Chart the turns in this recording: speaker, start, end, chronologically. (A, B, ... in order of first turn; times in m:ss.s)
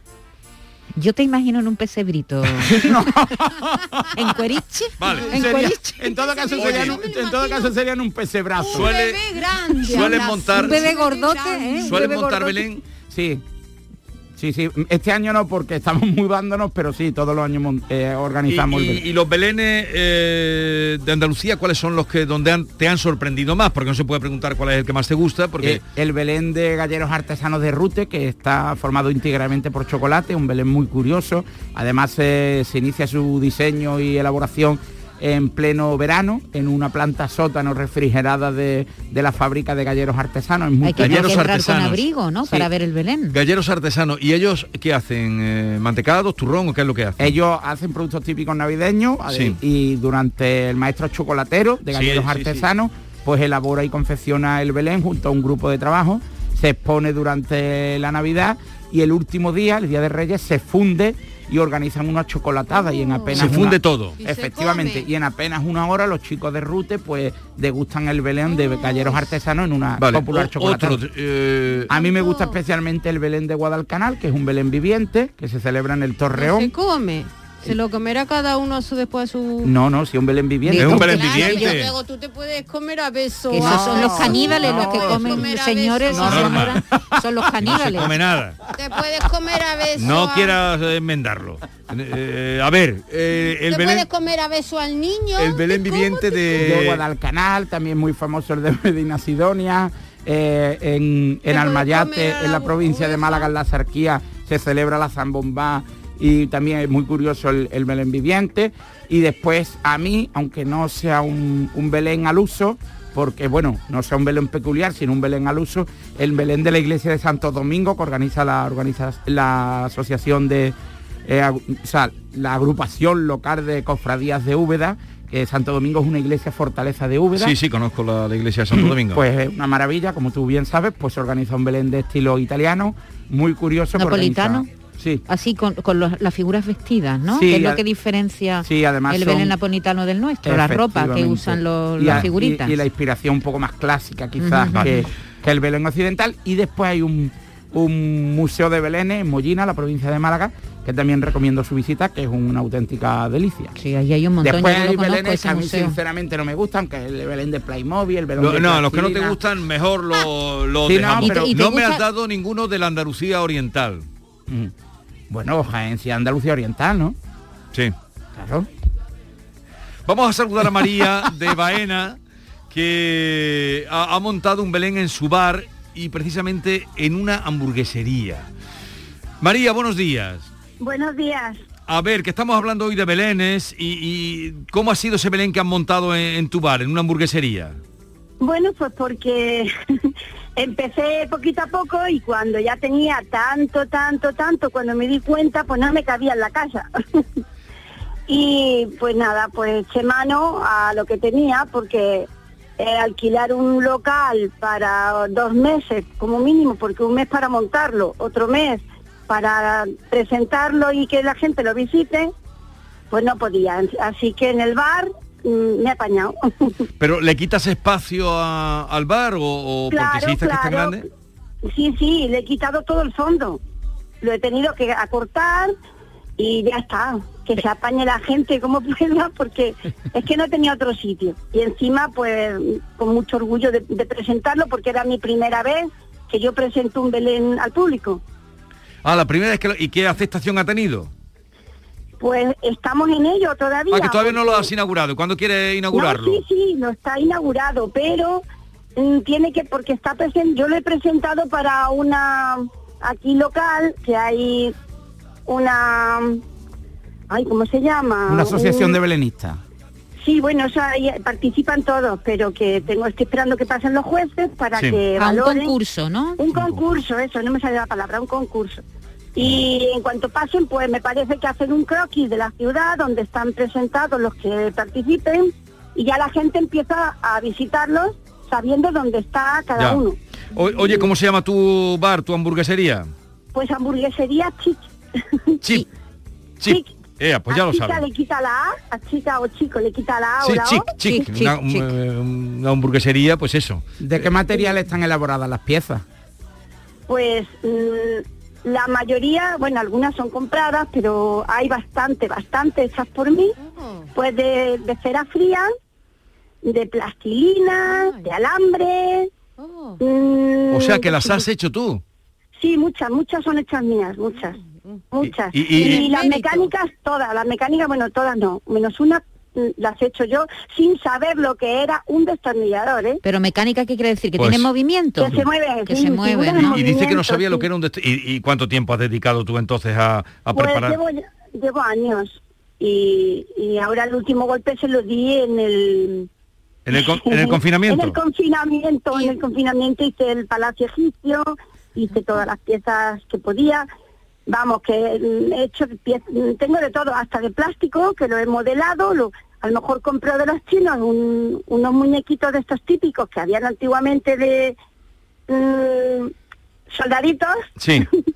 0:01.0-0:03.1 A
0:02.6-0:04.1 B
0:04.2-0:06.1 A
0:05.0-0:05.6 C
0:05.1-0:07.7 D
0:05.3-0:09.0 B
0:06.6-0:07.0 C
0:08.6-0:12.4 D
0:08.7-0:09.2 C
0:09.8-0:10.9 C
0:09.9-0:12.6 A
0:11.8-0:12.8 C
0:13.0-0:13.4 B
0:14.4-0:19.0 B
0:18.5-0:25.8 C
0:25.6-0:41.5 B
0:40.8-0:43.4 A
0:41.0-0:42.7 C
0:43.3-0:47.4 C
0:47.2-1:11.0 B
0:49.3-0:49.6 C
0:51.9-0:52.7 C
1:02.7-1:03.5 D
1:03.4-1:04.2 C
1:04.2-1:05.1 D
1:08.5-1:09.2 D
1:10.0-1:11.9 C
1:11.9-1:12.6 D
1:11.9-1:16.7 B
1:16.4-1:19.8 D
1:19.6-1:21.4 B
1:20.7-1:21.8 A
1:20.7-1:21.9 C
1:21.0-1:26.5 D
1:23.5-1:28.1 A
1:23.6-1:25.4 B
1:26.1-1:27.3 B
1:26.1-1:26.8 C
1:27.6-1:28.6 C
1:28.8-1:30.6 D
1:30.0-1:34.1 C
1:33.6-1:36.6 D
1:35.4-1:37.0 C
1:36.6-2:07.6 B
1:41.5-1:43.5 D
2:07.4-2:09.2 C
2:08.7-2:15.2 B
2:14.0-2:14.7 A
2:15.3-2:22.8 A
2:17.3-2:17.8 B
2:18.6-2:19.6 B
2:20.4-2:33.7 B
2:22.1-2:22.3 C
2:24.4-2:25.0 A
2:33.8-2:36.0 A
2:34.4-2:39.4 B
2:38.4-2:44.0 C
2:40.8-2:41.6 B
2:41.2-2:42.0 A
2:45.3-2:47.2 B
2:48.4-2:48.7 B
2:50.1-2:52.2 C
2:52.7-2:58.5 C
2:59.4-3:00.5 C
3:00.8-3:01.6 E
3:01.9-3:07.8 C
3:08.4-3:17.2 E
3:18.3-3:32.3 E
3:33.1-3:36.7 E
3:37.0-3:41.0 C
3:39.9-3:41.0 E
3:41.7-3:43.6 E
3:44.2-3:45.7 E
3:46.4-3:58.2 E
3:59.0-4:01.1 C
4:02.2-4:04.7 E
4:03.9-4:06.4 C
4:05.9-4:08.4 E
4:09.0-4:14.7 E
4:15.5-4:16.4 E
4:17.3-4:19.0 E
4:18.3-4:19.6 B
4:20.2-4:25.7 E
4:24.8-4:25.0 C
4:25.2-4:26.4 A
4:26.4-4:28.8 E
4:29.4-4:40.2 E
4:39.8-4:40.0 C
4:40.5-4:43.1 C
4:43.5-4:44.8 E
4:46.6-4:48.0 C
4:46.6-4:46.9 E
4:47.5-4:50.9 E
4:50.4-4:54.3 C
4:51.0-4:51.9 A
4:54.0-4:56.0 B
4:57.1-5:03.6 E
5:03.6-5:04.1 D
5:04.2-5:05.7 E
5:06.6-5:09.3 E
5:07.9-5:08.3 D
5:09.6-5:10.0 D
5:10.0-5:11.4 E
5:10.7-5:12.0 C
5:12.6-5:14.6 E
5:15.1-5:23.2 E
5:15.2-5:16.1 C
5:15.8-5:16.6 D
5:23.2-5:26.8 A
5:24.4-5:24.7 C
5:25.2-5:27.7 E
5:26.5-5:31.0 C
5:30.5-5:36.3 E
5:36.9-5:38.2 C
5:36.9-5:43.9 E
5:44.5-5:54.8 E
5:55.5-5:56.3 E
5:56.9-5:58.1 E
5:57.8-5:58.1 C